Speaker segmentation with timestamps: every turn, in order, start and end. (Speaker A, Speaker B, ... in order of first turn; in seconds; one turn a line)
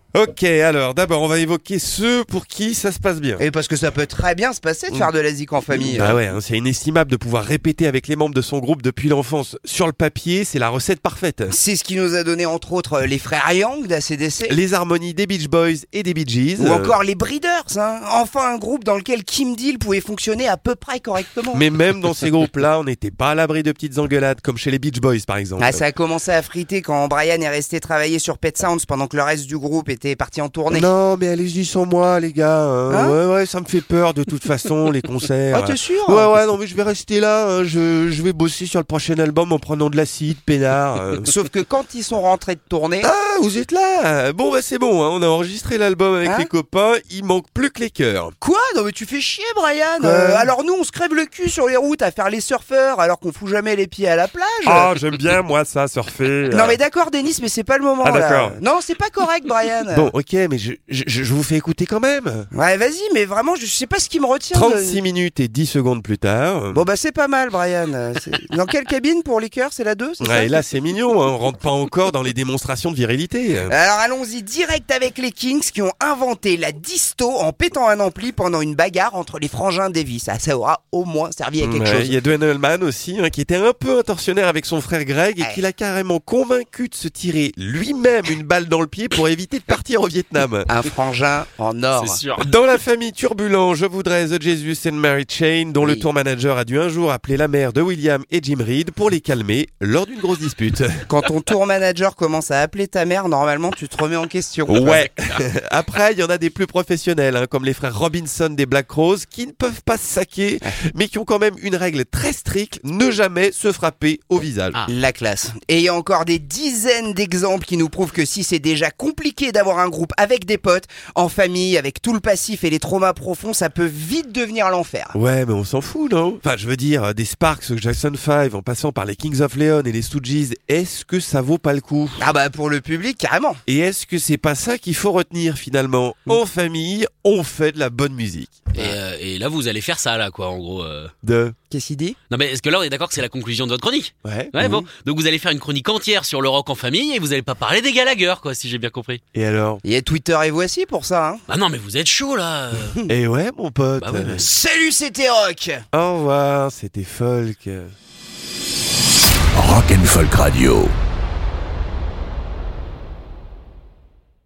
Speaker A: 0.1-3.4
Speaker B: 3.4-6.2
Speaker A: 5.7-11.6
Speaker B: 11.5-14.5
Speaker A: 14.5-16.9
Speaker B: 16.6-21.6
Speaker A: 21.5-25.8
Speaker B: 25.6-30.9
Speaker A: 30.7-41.3
Speaker B: 32.9-33.2
Speaker B: 35.5-36.3
Speaker B: 41.2-43.1
Speaker A: 43.0-48.3
Speaker B: 46.2-46.5
Speaker B: 48.4-54.9
Speaker A: 50.0-50.5
Speaker A: 54.6-56.8
Speaker B: 56.5-60.1
Speaker A: 58.0-58.6
Speaker A: 59.9-62.5
Speaker B: 62.5-65.0
Speaker A: 64.5-66.8
Speaker B: 66.7-70.5
Speaker A: 70.2-73.7
Speaker B: 73.7-82.2
Speaker A: 81.6-90.7
Speaker B: 85.4-85.6
Speaker B: 90.7-92.2
Speaker C: 91.9-92.5
Speaker A: 92.4-101.2
Speaker B: 101.1-105.1
Speaker A: 104.7-114.8
Speaker B: 114.9-125.1
Speaker A: 125.1-132.2
Speaker B: 132.2-133.6
Speaker A: 133.7-138.7
Speaker C: 138.7-141.1
Speaker A: 141.2-141.5
Speaker B: 141.7-142.2
Speaker C: 142.3-149.2
Speaker A: 144.2-144.8
Speaker A: 149.3-149.8
Speaker B: 149.8-151.4
Speaker C: 151.5-153.0
Speaker A: 153.1-154.4
Speaker C: 154.0-154.5
Speaker B: 154.4-155.8
Speaker A: 155.9-157.9
Speaker C: 159.5-160.9